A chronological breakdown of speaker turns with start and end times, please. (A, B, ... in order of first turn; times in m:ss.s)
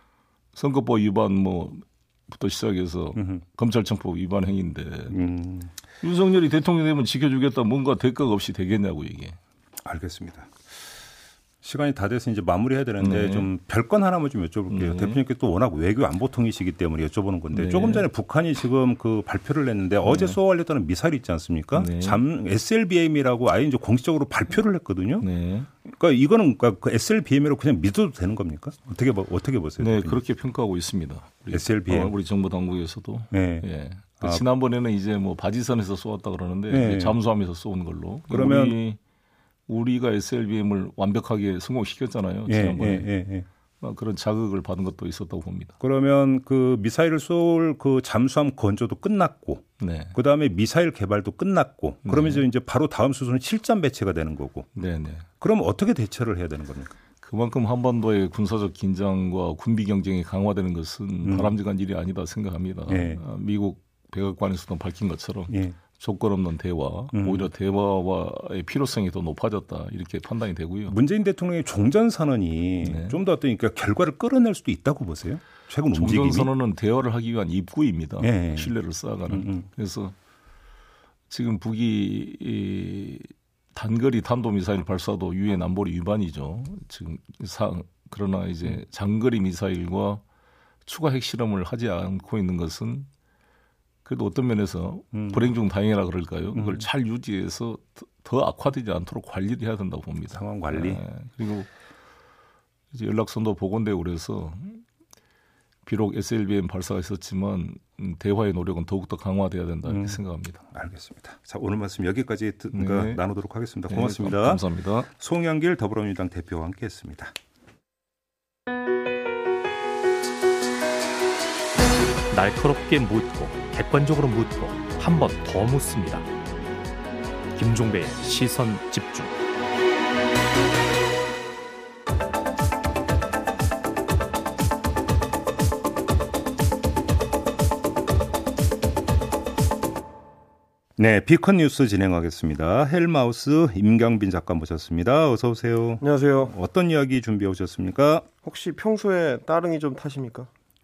0:00.5-0:05.1 A
0:03.1-0:03.4 B
0:05.1-0:05.7 B
0:06.0-0:09.4 A
0:09.8-0:10.5 B
0:11.6-0:25.3 B
0:13.0-0:13.5 A
0:14.7-0:15.2 A
0:17.5-0:18.1 A
0:20.0-0:20.4 A
0:21.7-0:22.2 A
0:25.2-0:25.7 A
0:25.8-0:30.2 B
0:29.8-0:39.0 A
0:31.5-0:32.1 B
0:33.3-0:33.7 B
0:36.7-0:37.2 B
0:38.3-0:38.8 B
0:39.7-0:43.1 A
0:42.5-0:43.4 B
0:43.8-0:45.7 A
0:45.8-0:54.7 B
0:49.8-0:50.1 A
0:52.0-0:52.4 A
0:54.7-0:55.2 A
0:55.4-0:56.9 B
0:57.2-1:10.9 A
1:01.2-1:01.5 B
1:02.9-1:03.2 B
1:05.5-1:05.8 B
1:07.1-1:07.5 B
1:10.9-1:16.5 B
1:12.8-1:13.2 A
1:15.9-1:20.1 A
1:18.2-1:18.7 B
1:19.3-1:19.7 B
1:21.3-1:30.2 A
1:30.8-1:33.1 A
1:34.0-1:41.7 A
1:35.1-1:35.5 B
1:36.5-1:36.8 B
1:40.3-1:41.0 B
1:42.9-1:44.8 A
1:45.8-1:50.6 A
1:49.8-1:57.3 B
1:52.7-1:53.2 A
1:53.9-1:55.1 A
2:02.3-2:06.3 C
2:07.5-2:09.3 C
2:21.0-2:28.3 B
2:26.0-2:26.5 D
2:28.4-2:30.5 D